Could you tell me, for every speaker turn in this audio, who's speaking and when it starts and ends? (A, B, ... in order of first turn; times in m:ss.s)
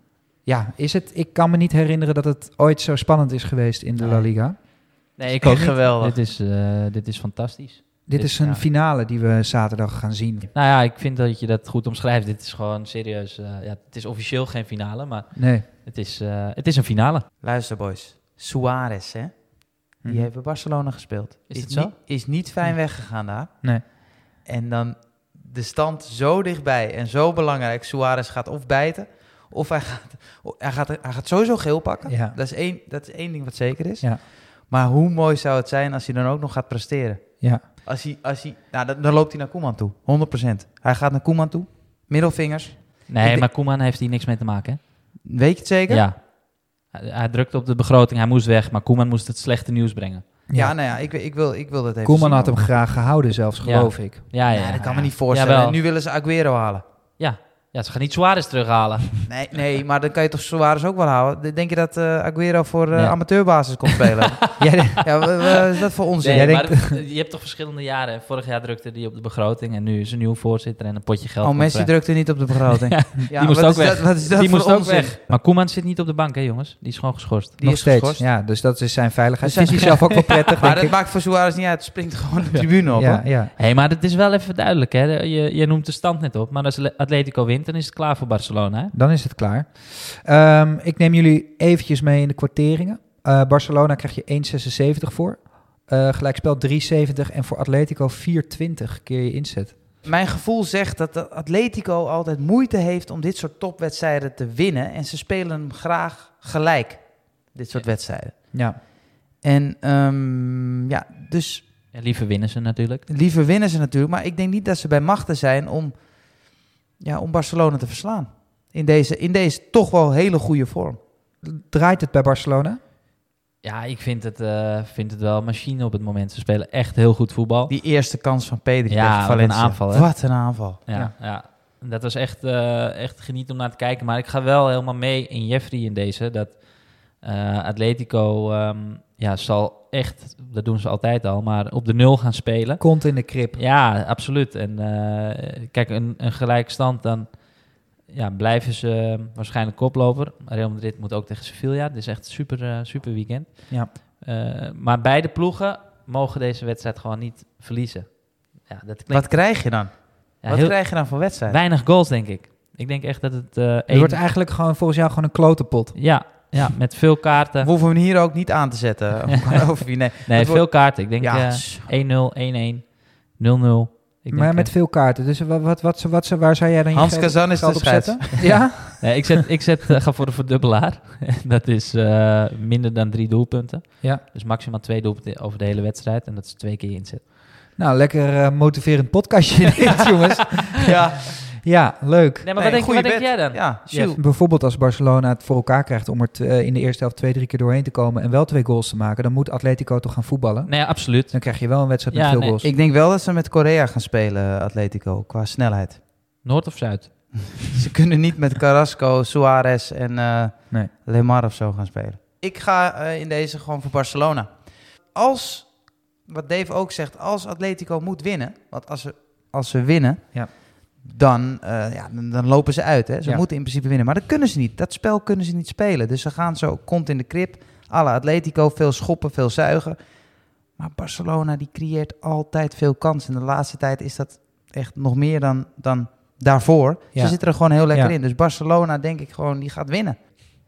0:00.4-0:04.6 A
0:04.0-0:08.4 B
0:05.2-0:06.2 C
0:08.1-0:10.5 A
0:10.5-0:17.3 B
0:15.4-0:15.7 A
0:17.4-0:43.5 C
0:20.0-0:20.3 A
0:21.5-0:21.9 B
0:32.1-0:32.4 A
0:43.1-0:45.0 B
0:45.2-0:46.1 C
0:45.9-0:50.2 B
0:50.5-0:52.6 C
0:52.0-0:54.8 A
0:53.6-0:55.8 B
0:54.5-0:56.8 C
0:57.2-0:59.1 B
0:59.2-1:06.7 C
1:04.6-1:05.0 A
1:06.2-1:17.6 B
1:06.3-1:07.0 A
1:11.4-1:15.2 C
1:17.6-1:18.3 C
1:17.6-1:20.9 A
1:19.4-1:23.2 C
1:23.0-1:23.5 A
1:23.6-1:28.9 B
1:28.9-1:39.8 A
1:40.0-1:48.7 C
1:48.5-1:48.8 A
1:49.4-1:51.7 C
1:51.9-1:53.0 B
1:53.1-2:01.0 C
2:01.4-2:02.8 A
2:03.6-2:07.7 B
2:07.7-2:10.8 C
2:08.9-2:39.9 B
2:22.8-2:23.6 A
2:39.1-2:41.6 C
2:40.4-2:44.2 B
2:43.9-2:46.4 A
2:46.0-2:47.7 B
2:47.6-2:51.9 C
2:50.3-2:54.7 B
2:54.3-2:59.3 A
2:56.9-2:58.7 C
2:58.5-3:07.3 B
3:07.8-3:10.9 A
3:10.8-3:11.4 C
3:11.6-3:12.5 A
3:12.4-3:14.2 B
3:12.6-3:14.2 C
3:14.2-3:22.7 A
3:20.7-3:21.6 B
3:22.1-3:22.6 B
3:22.6-3:26.0 C
3:26.4-3:27.6 B
3:27.6-4:00.2 C
3:57.1-3:58.1 A